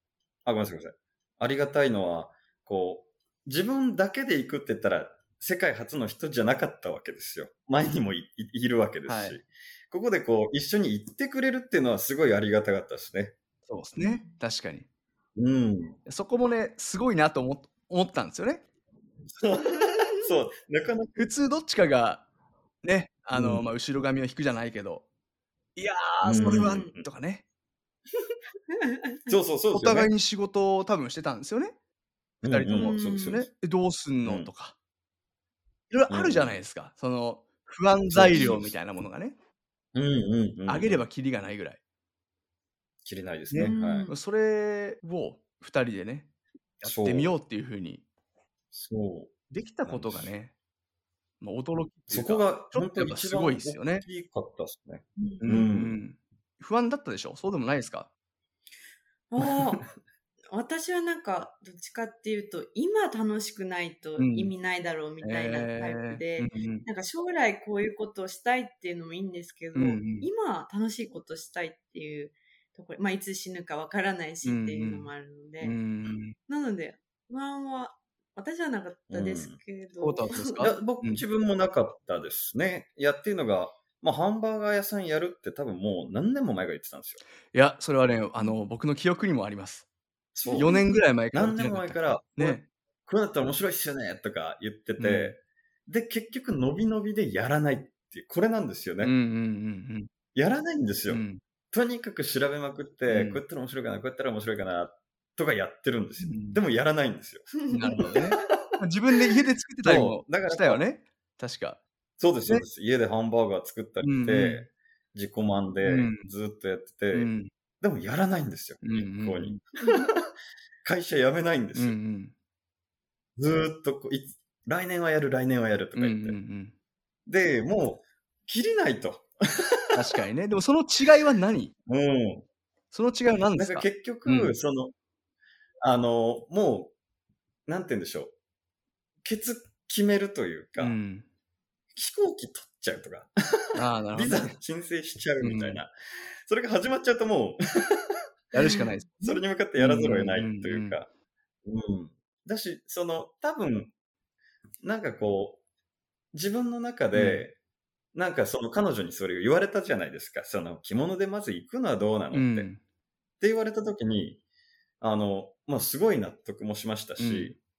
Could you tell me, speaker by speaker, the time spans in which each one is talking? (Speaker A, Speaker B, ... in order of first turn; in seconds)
Speaker A: 0.5-13.4, 15.4-16.0, 19.3-21.3, 23.3-23.7, 26.2-27.1, 29.3-30.1, 32.4-33.5, 34.2-34.5, 36.1-36.6, 38.1-38.8, 39.9-41.1, 43.0-44.1, 46.8-47.3, 48.7-50.3, 52.1-56.0, 79.1-79.6, 80.6-87.2, 90.3-90.8, 91.3-99.1, 100.3-107.5, 109.8-110.8, 112.2-120.3, 120.8-122.0, 123.4-126.4, 127.3-129.9, 131.9-132.5, 133.6-134.9, 135.8-136.9, 137.7-138.3, 139.2-141.0, 141.9-145.9, 146.4-151.1, 151.7-153.9, 154.8-155.6, 156.3-157.6, 158.1-162.7, 163.4-164.4, 165.0-167.6
Speaker B: 9.1-9.4, 13.7-14.9, 16.1-18.6, 21.2-22.3, 22.8-25.1, 25.8-27.4, 29.7-31.8, 32.5-34.8, 35.9-39.4, 40.7-41.8, 43.5-48.0, 49.5-50.5, 51.4-54.1, 55.4-58.1, 64.2-64.5, 65.2-66.9, 69.8-70.3, 74.4-76.3, 80.0-81.2, 87.5-89.9, 90.5-92.7, 95.0-95.4, 99.0-100.1, 101.1-101.4, 103.1-103.4, 106.2-106.6, 107.7-111.8, 114.0-114.7, 115.8-116.3, 117.1-117.5, 118.8-119.6, 121.8-122.3, 126.0-126.7, 129.9-131.7, 132.9-134.6, 140.8-141.3, 143.8-144.5, 145.4-145.8, 148.5-149.1, 149.8-151.0, 157.1-157.5, 162.3-162.8, 167.2-167.6
Speaker C: 14.0-14.4, 26.4-26.9, 28.7-29.4, 32.8-33.5, 38.3-38.6, 43.6-44.2, 55.2-55.7, 59.3-59.9, 60.5-75.8, 76.4-80.7, 88.4-88.7, 90.5-91.0, 107.5-108.4, 119.8-120.1, 148.6-149.4